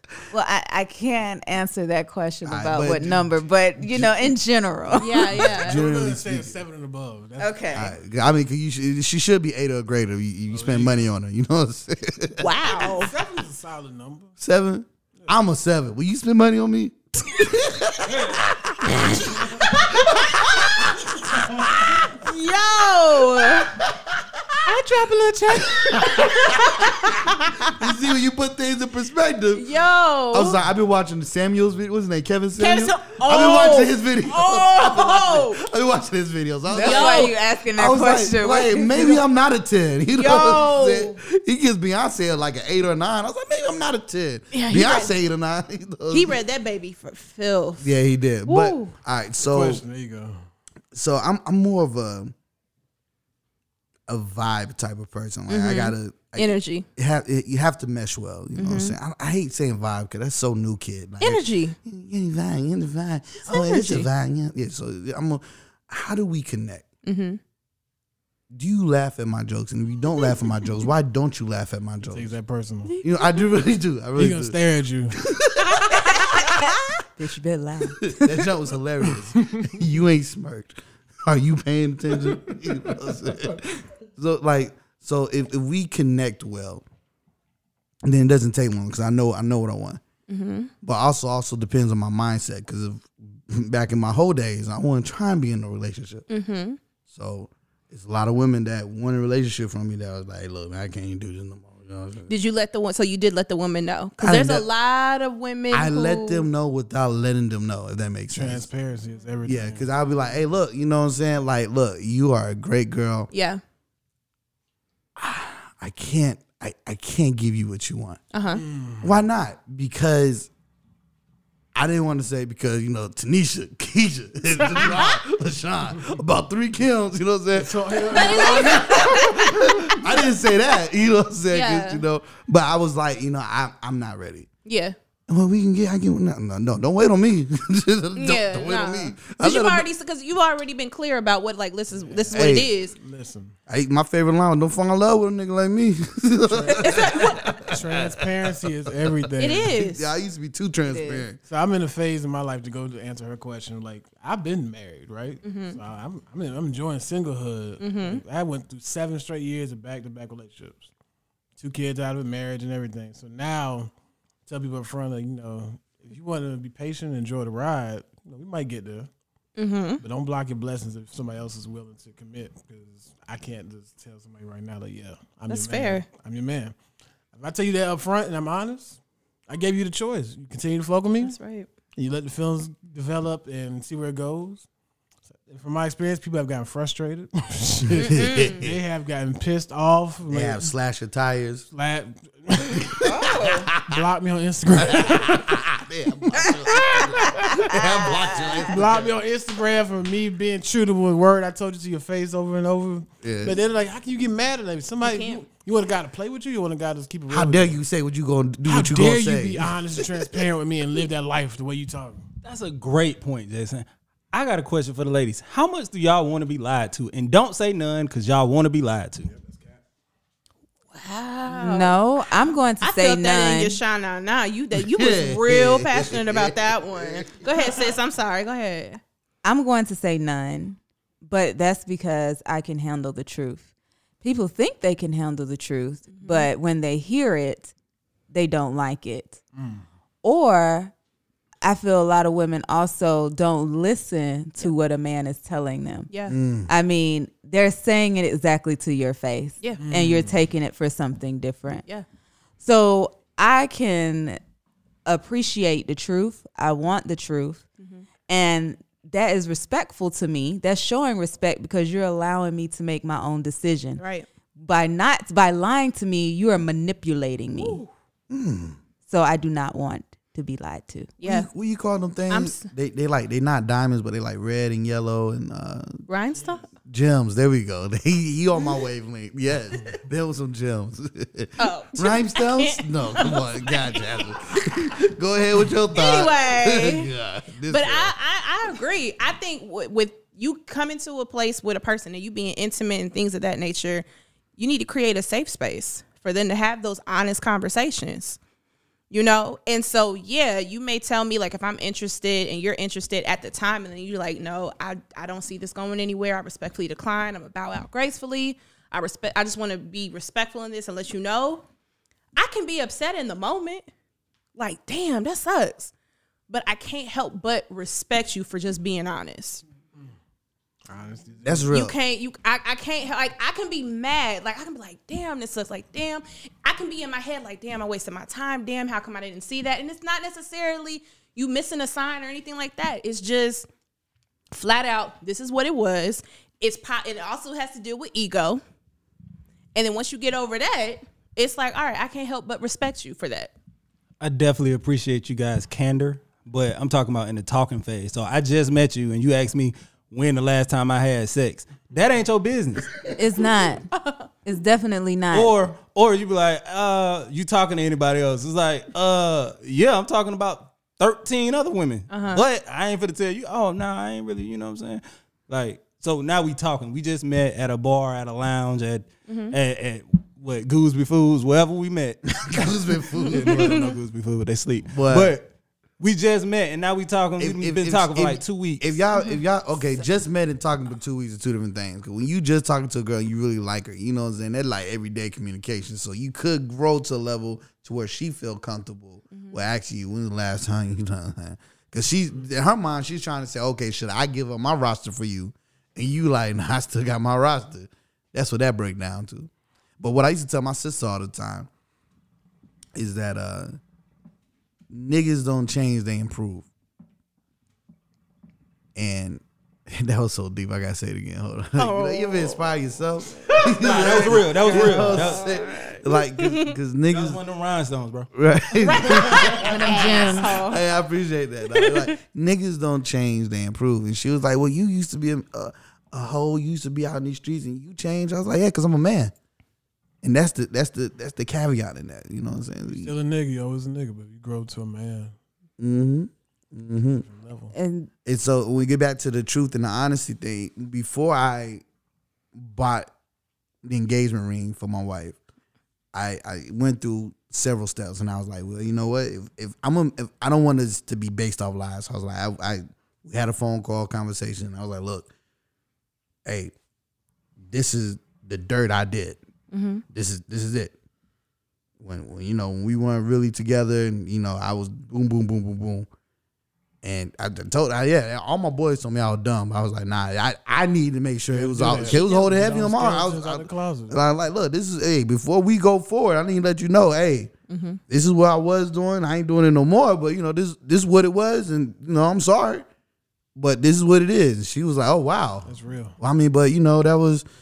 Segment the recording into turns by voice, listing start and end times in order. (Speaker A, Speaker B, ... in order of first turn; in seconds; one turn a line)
Speaker A: 0.3-5.4
Speaker B: 2.5-4.3
Speaker C: 5.0-5.8
Speaker B: 5.3-6.5
Speaker D: 5.6-7.8
Speaker A: 7.4-7.8
Speaker B: 7.7-12.6
Speaker D: 10.5-11.0
Speaker C: 12.4-13.1
Speaker D: 12.8-14.3
Speaker B: 14.4-22.0
Speaker C: 19.8-20.6
Speaker C: 22.1-23.8
Speaker B: 23.7-24.4
Speaker C: 24.7-27.7
Speaker D: 24.8-25.7
Speaker B: 25.8-27.0
Speaker B: 27.6-29.7
Speaker C: 29.5-30.6
Speaker B: 30.3-46.4
Speaker C: 32.6-35.6
Speaker C: 36.7-37.4
Speaker A: 36.7-39.2
Speaker C: 40.1-41.2
Speaker C: 44.5-45.1
Speaker C: 46.1-48.9
Speaker B: 47.8-49.8
Speaker D: 49.4-50.4
Speaker B: 50.9-52.3
Speaker B: 54.1-66.8
Speaker C: 55.5-56.9
Speaker C: 58.6-59.0
Speaker C: 61.2-61.8
Speaker C: 63.5-64.1
Speaker C: 67.0-67.4
Speaker B: 68.5-72.3
Speaker D: 72.1-72.9
Speaker C: 72.8-73.4
Speaker B: 73.0-74.6
Speaker D: 74.2-75.2
Speaker B: 75.1-76.2
Speaker A: 77.2-78.2
Speaker B: 78.0-86.8
Speaker B: 88.0-90.0
Speaker C: 90.3-90.7
Speaker B: 90.8-96.2
Speaker C: 96.3-96.8
Speaker B: 97.1-102.3
Speaker C: 102.3-106.5
Speaker B: 104.2-104.7
Speaker B: 105.7-108.7
Speaker D: 108.3-109.9
Speaker B: 109.5-113.3
Speaker C: 113.3-113.6
Speaker B: 115.2-118.2
Speaker C: 118.3-118.6
Speaker D: 118.5-119.1
Speaker B: 119.0-120.5
Speaker B: 121.8-134.5
Speaker D: 127.5-129.4
Speaker C: 128.1-129.5
Speaker C: 131.5-132.0
Speaker C: 134.7-134.9
Speaker B: 135.3-139.9
Speaker C: 138.2-142.9
Speaker D: 141.9-143.6
Speaker B: 142.3-142.7
Speaker B: 143.7-151.4
Speaker D: 146.5-149.8
Speaker C: 146.8-147.4
Speaker C: 149.4-150.1
Speaker A: 150.9-151.2
Speaker D: 151.4-160.9
Speaker C: 155.4-155.8
Speaker C: 157.8-158.2
Speaker D: 161.6-163.9
Speaker D: 164.5-169.1
Speaker C: 169.6-170.0
Speaker D: 170.0-176.8
Speaker C: 175.5-176.1
Speaker D: 177.3-181.4
Speaker C: 181.2-181.7
Speaker D: 181.9-184.7
Speaker D: 185.4-190.7
Speaker B: 187.9-188.8
Speaker C: 188.1-188.6
Speaker B: 190.3-191.7
Speaker D: 191.7-193.1
Speaker B: 192.8-194.0
Speaker C: 193.1-193.7
Speaker D: 193.8-195.5
Speaker B: 194.8-199.1
Speaker C: 196.8-197.5
Speaker D: 198.7-207.8
Speaker B: 203.2-203.6
Speaker C: 205.0-205.4
Speaker B: 207.3-210.5
Speaker D: 208.7-212.2
Speaker E: 212.4-219.3
Speaker C: 220.9-222.0
Speaker A: 221.5-223.8
Speaker C: 222.8-229.0
Speaker B: 224.8-227.5
Speaker A: 229.4-233.7
Speaker A: 234.2-237.7
Speaker C: 236.1-236.5
Speaker A: 238.3-239.4
Speaker D: 239.6-239.8
Speaker A: 240.2-240.9
Speaker A: 241.6-246.1
Speaker C: 246.1-246.4
Speaker B: 246.3-246.7
Speaker A: 246.7-251.8
Speaker D: 249.8-250.3
Speaker A: 252.6-254.4
Speaker A: 255.1-257.6
Speaker C: 257.8-258.1
Speaker A: 258.3-264.0
Speaker C: 264.0-264.3
Speaker A: 264.6-267.8
Speaker C: 267.6-267.9
Speaker B: 268.3-268.8
Speaker A: 269.1-271.1
Speaker C: 271.2-271.5
Speaker B: 271.2-276.1
Speaker C: 272.3-272.7
Speaker C: 276.1-276.6
Speaker B: 276.9-288.1
Speaker C: 281.6-284.3
Speaker C: 285.9-287.1
Speaker C: 287.7-294.1
Speaker C: 294.6-298.4
Speaker C: 299.1-311.6
Speaker C: 312.4-313.9
Speaker C: 314.6-315.9
Speaker C: 316.5-319.6
Speaker D: 320.9-321.7
Speaker B: 321.4-322.0
Speaker C: 321.7-333.7
Speaker C: 334.5-338.6
Speaker C: 339.8-343.5
Speaker E: 344.2-352.9
Speaker A: 353.1-353.9
Speaker A: 354.4-355.6
Speaker E: 355.3-372.7
Speaker C: 362.1-362.4
Speaker C: 369.3-369.6
Speaker B: 372.4-373.9
Speaker E: 373.2-379.0
Speaker C: 373.6-373.9
Speaker B: 374.9-375.3
Speaker B: 377.4-399.5
Speaker C: 389.3-389.6
Speaker B: 400.0-401.7
Speaker B: 402.9-403.7
Speaker B: 404.9-406.7
Speaker B: 409.0-417.4
Speaker C: 411.8-412.7
Speaker C: 413.5-416.8
Speaker E: 413.7-415.6
Speaker E: 417.1-418.3
Speaker B: 418.3-429.3
Speaker C: 418.8-420.8
Speaker E: 419.0-419.5
Speaker A: 419.5-420.6
Speaker C: 421.7-422.1
Speaker B: 430.2-433.1
Speaker D: 432.9-435.3
Speaker B: 435.8-437.3
Speaker D: 437.2-437.7
Speaker A: 437.7-438.1
Speaker B: 438.2-441.8
Speaker B: 442.6-443.1
Speaker B: 443.8-445.4
Speaker B: 446.1-455.3
Speaker B: 456.5-456.7
Speaker B: 457.6-459.4
Speaker C: 459.7-460.0
Speaker B: 460.1-460.9
Speaker B: 462.0-466.1
Speaker B: 467.0-477.5
Speaker D: 471.5-474.2
Speaker C: 477.7-478.0
Speaker B: 478.1-482.9
Speaker B: 483.6-487.4
Speaker D: 485.7-486.2